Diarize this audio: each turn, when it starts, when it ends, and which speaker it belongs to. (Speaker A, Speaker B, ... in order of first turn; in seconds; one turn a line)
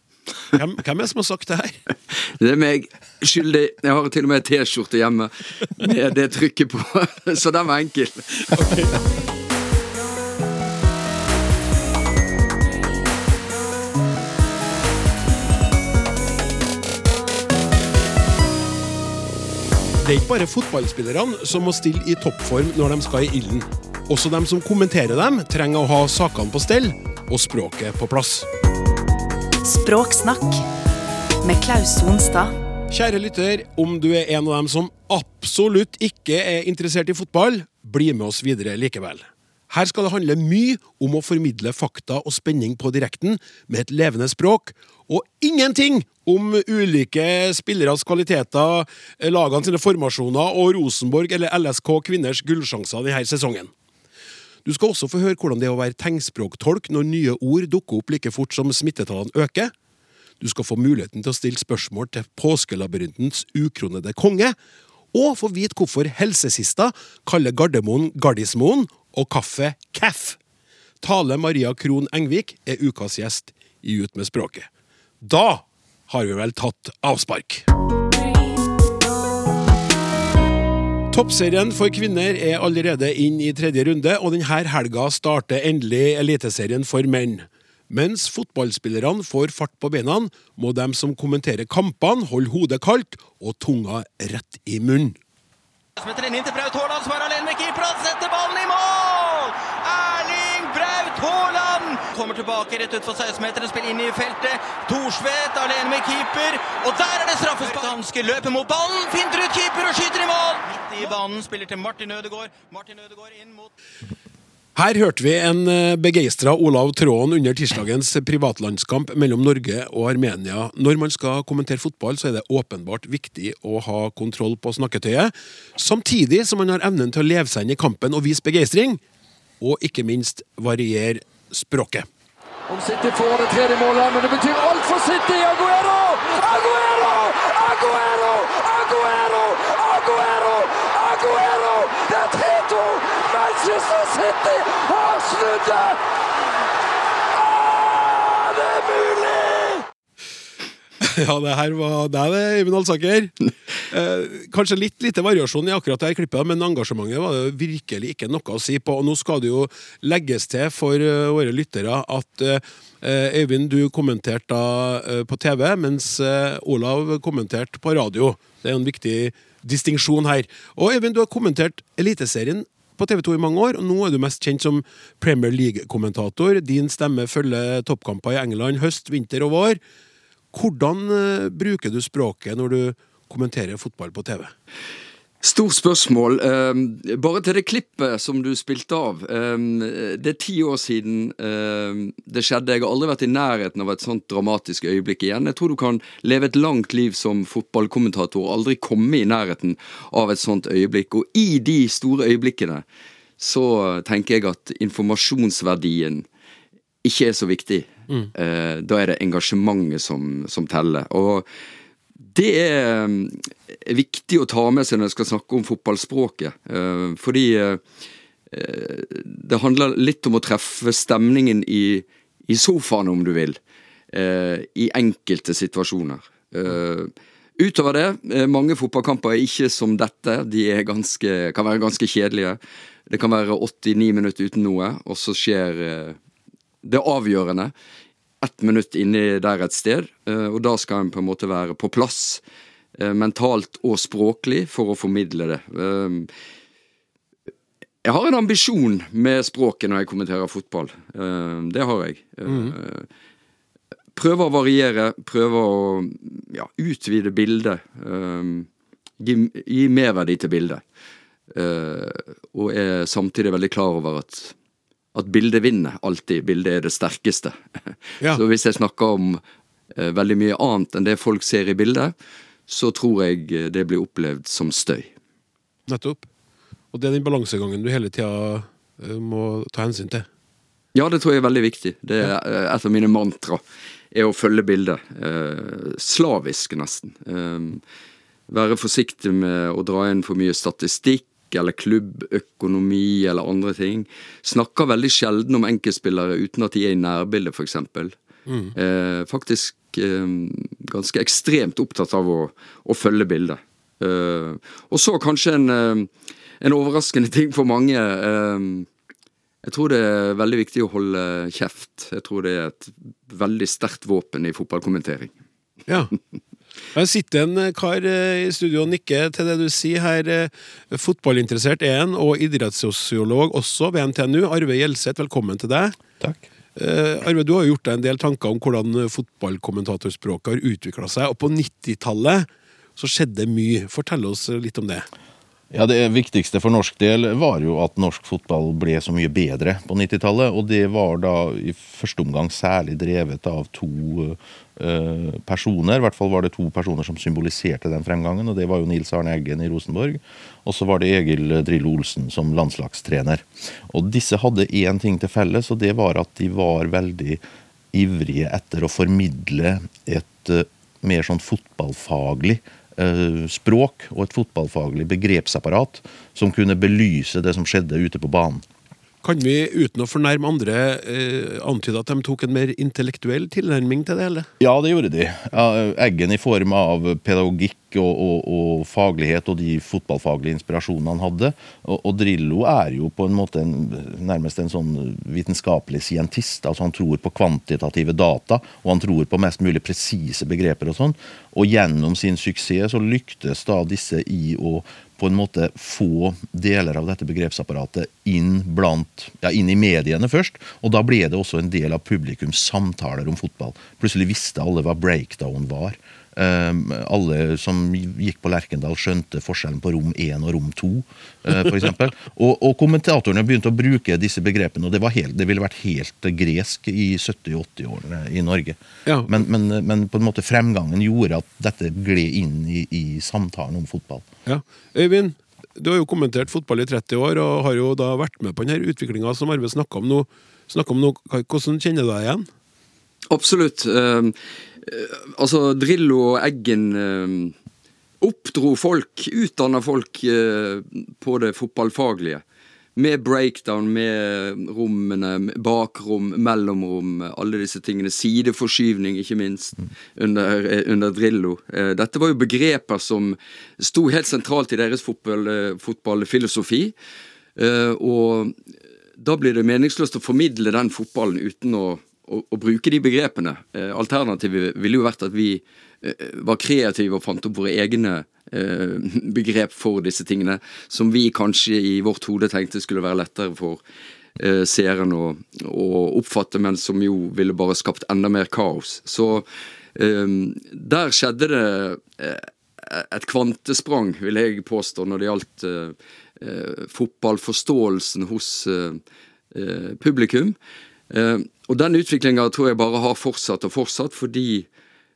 Speaker A: 0.5-1.8
Speaker B: 2.4-8.5
Speaker A: 8.5-8.9
Speaker A: 20.0-28.5
Speaker C: 29.6-30.6
Speaker C: 31.4-32.5
Speaker A: 32.9-53.7
Speaker A: 54.6-59.7
Speaker A: 60.4-64.5
Speaker A: 65.1-70.4
Speaker A: 71.0-74.7
Speaker A: 75.2-77.7
Speaker A: 81.1-95.2
Speaker D: 96.0-113.7
Speaker A: 114.8-129.0
Speaker A: 129.6-132.1
Speaker E: 132.7-146.0
Speaker E: 147.3-149.8
Speaker A: 151.0-153.3
Speaker A: 153.9-179.8
Speaker A: 180.5-184.5
Speaker B: 185.4-202.8
Speaker B: 203.4-206.2
Speaker B: 207.0-211.4
Speaker B: 212.3-217.8
Speaker B: 218.5-223.6
Speaker B: 224.1-236.2
Speaker B: 236.8-237.7
Speaker B: 238.4-242.4
Speaker B: 243.0-246.3
Speaker B: 248.0-253.1
Speaker A: 252.5-252.7
Speaker B: 254.1-258.7
Speaker B: 259.2-260.8
Speaker B: 261.5-264.5
Speaker B: 265.1-269.4
Speaker B: 269.9-272.1
Speaker B: 272.7-275.1
Speaker A: 275.9-276.3
Speaker A: 276.9-280.3
Speaker B: 280.9-283.6
Speaker B: 284.1-287.8
Speaker B: 288.5-298.1
Speaker A: 298.5-298.7
Speaker B: 298.7-306.1
Speaker B: 306.6-308.9
Speaker B: 309.6-315.3
Speaker A: 315.9-316.1
Speaker A: 316.9-326.0
Speaker A: 326.8-335.1
Speaker F: 335.7-357.4
Speaker F: 357.9-368.6
Speaker A: 369.2-374.5
Speaker F: 374.6-424.3
Speaker A: 419.1-419.3
Speaker A: 424.4-432.5
Speaker B: 433.3-437.5
Speaker B: 438.2-442.4
Speaker B: 442.9-456.9
Speaker B: 457.6-458.5
Speaker B: 459.2-473.8
Speaker B: 474.4-489.0
Speaker B: 489.5-490.6
Speaker B: 491.1-494.7